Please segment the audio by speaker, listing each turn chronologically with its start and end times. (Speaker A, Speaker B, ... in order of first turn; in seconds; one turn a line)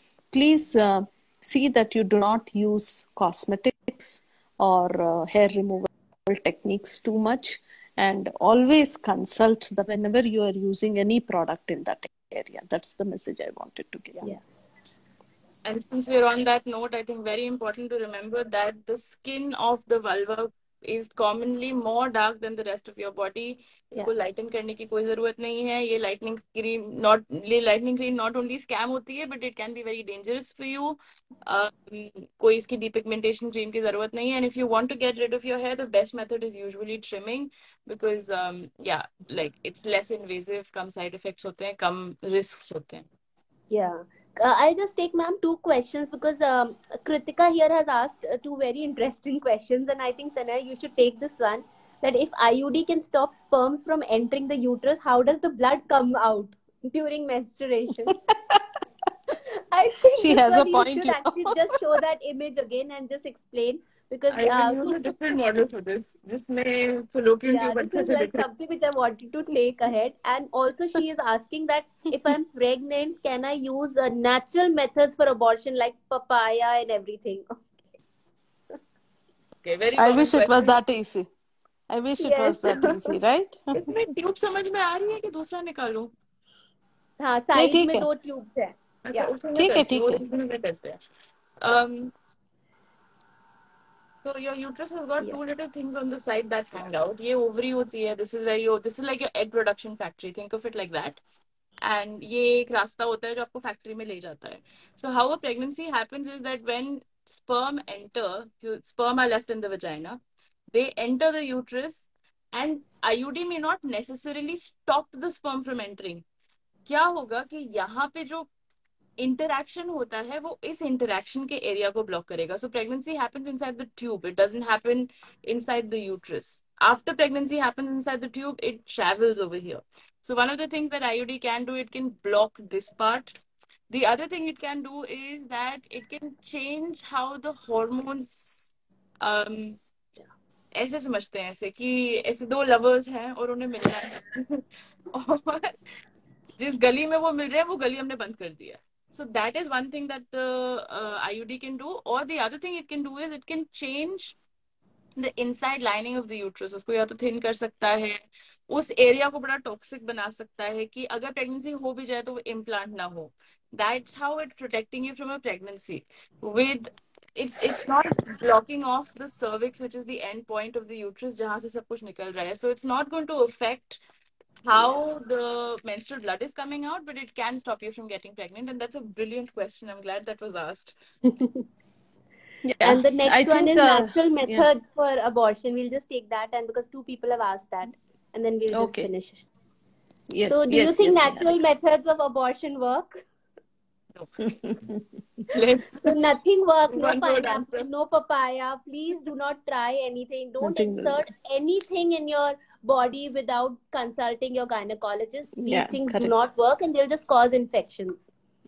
Speaker A: 0.3-14.4
Speaker B: 15.6-43.0
Speaker C: 43.7-58.2
Speaker C: 59.6-65.0
Speaker A: 60.2-61.6
Speaker B: 64.3-68.4
Speaker C: 67.5-77.6
Speaker B: 79.6-80.8
Speaker A: 80.0-81.3
Speaker A: 81.9-83.9
Speaker C: 82.2-83.1
Speaker B: 83.7-86.1
Speaker C: 87.2-89.3
Speaker A: 87.5-88.1
Speaker B: 89.0-91.0
Speaker A: 89.6-90.2
Speaker B: 91.6-92.1
Speaker B: 94.2-101.2
Speaker B: 101.8-110.2
Speaker B: 110.7-116.2
Speaker B: 116.8-118.5
Speaker B: 119.2-133.3
Speaker B: 133.9-139.8
Speaker B: 140.8-145.7
Speaker B: 146.6-154.3
Speaker B: 155.2-174.0
Speaker B: 174.6-180.9
Speaker C: 181.2-181.6
Speaker A: 182.6-184.7
Speaker C: 182.8-189.4
Speaker A: 188.7-189.1
Speaker A: 190.3-191.6
Speaker C: 190.5-193.2
Speaker A: 194.5-195.0
Speaker B: 195.5-196.2
Speaker C: 196.1-208.2
Speaker B: 196.9-197.9
Speaker A: 200.6-201.3
Speaker A: 205.6-206.4